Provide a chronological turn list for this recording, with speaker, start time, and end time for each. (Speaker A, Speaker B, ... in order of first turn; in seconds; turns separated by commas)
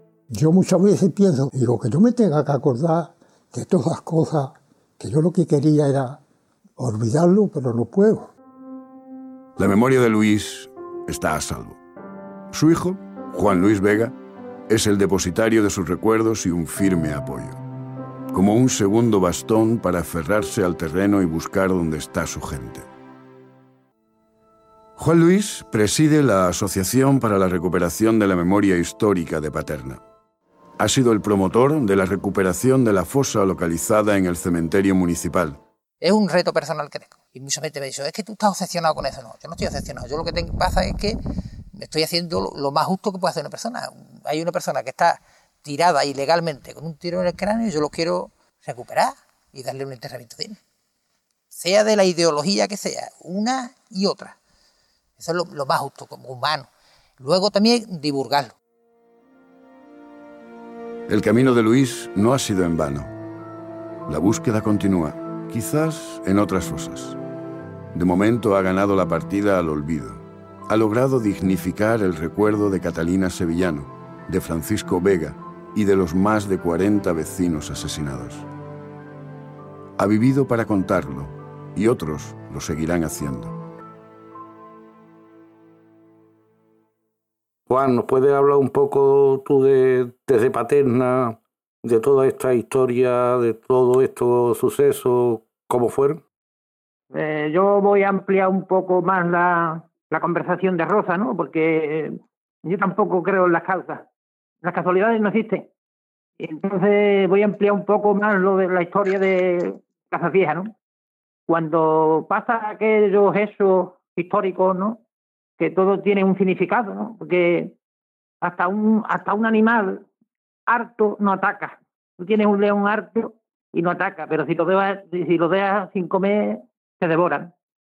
Speaker A: 0.3-6.2, Speaker A: 6.8-8.3, Speaker B: 9.6-11.8, Speaker B: 12.5-14.1, Speaker B: 14.7-17.6, Speaker B: 18.3-22.9, Speaker B: 25.0-30.0, Speaker B: 30.8-35.6, Speaker C: 36.0-41.2, Speaker C: 41.8-50.6, Speaker C: 51.5-54.4, Speaker C: 55.2-56.7, Speaker C: 57.2-58.5, Speaker B: 61.1-63.1, Speaker B: 64.1-67.2, Speaker B: 67.9-78.5, Speaker B: 80.0-83.6, Speaker D: 87.7-96.2, Speaker E: 97.1-104.0, Speaker E: 104.6-105.7, Speaker E: 106.4-110.7, Speaker E: 111.5-115.0, Speaker E: 115.6-117.7, Speaker E: 118.4-120.0, Speaker E: 120.7-127.5